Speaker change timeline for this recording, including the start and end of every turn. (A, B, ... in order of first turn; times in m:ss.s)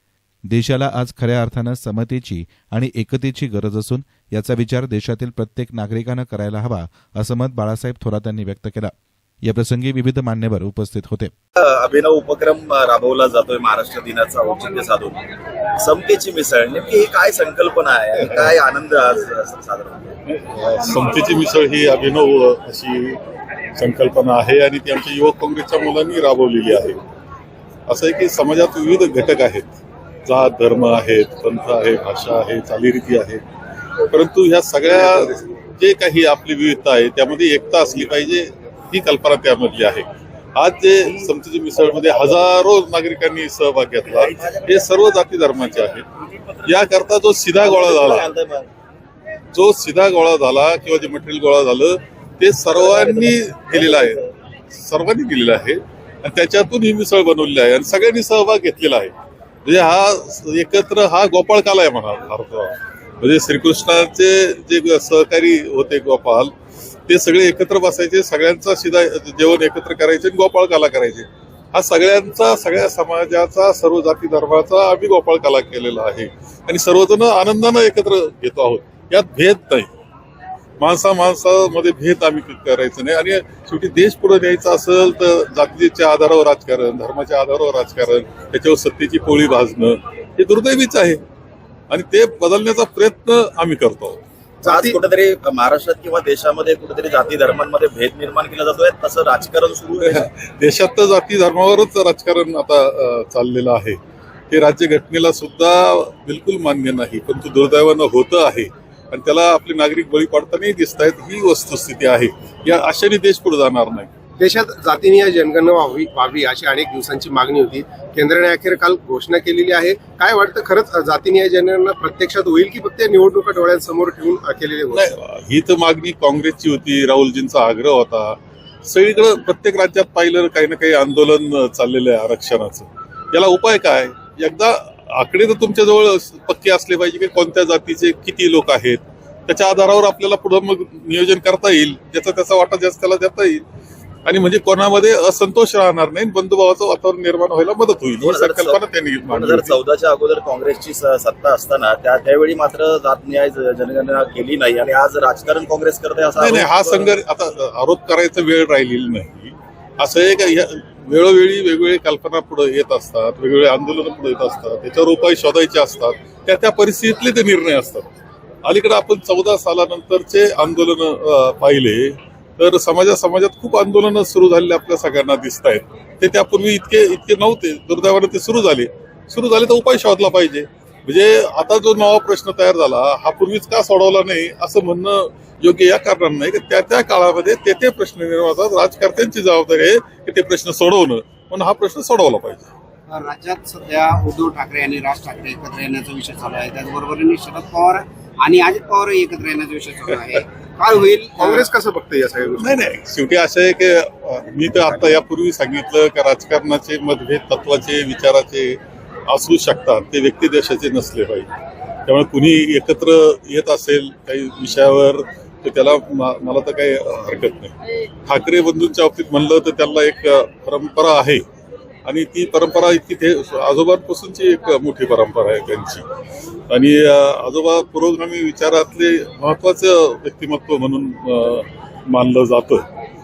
0:00.5-0:11.3 A
0:11.6-0:15.2 B
0:15.8-0:20.1 B
0:20.3-0:23.2 C
0:23.8-0:27.0 C
0:27.9-0:33.4 C
0:34.1-0:46.1 C
0:44.2-0:44.8 B
0:46.6-0:48.3 C
0:47.6-0:48.7 B
0:49.5-0:54.2 C
0:52.7-0:54.3 B
0:54.7-0:59.1 C
0:59.6-1:06.5 C
1:07.1-1:19.9 C
1:20.8-1:31.2 C
1:31.9-1:34.2 C
1:34.6-1:35.0 D
1:34.6-1:40.2 B
1:40.0-1:44.0 C
1:44.5-1:54.1 C
1:54.4-2:05.1 D
2:04.9-2:23.6 C
2:24.2-2:29.8 C
2:28.2-2:37.1 B
2:36.4-2:48.1 C
2:48.6-3:12.7 C
3:13.1-3:21.6 E
3:21.2-3:22.8 D
3:22.6-3:31.5 C
3:32.1-3:41.4 C
3:42.0-3:46.0 C
3:46.7-3:52.8 C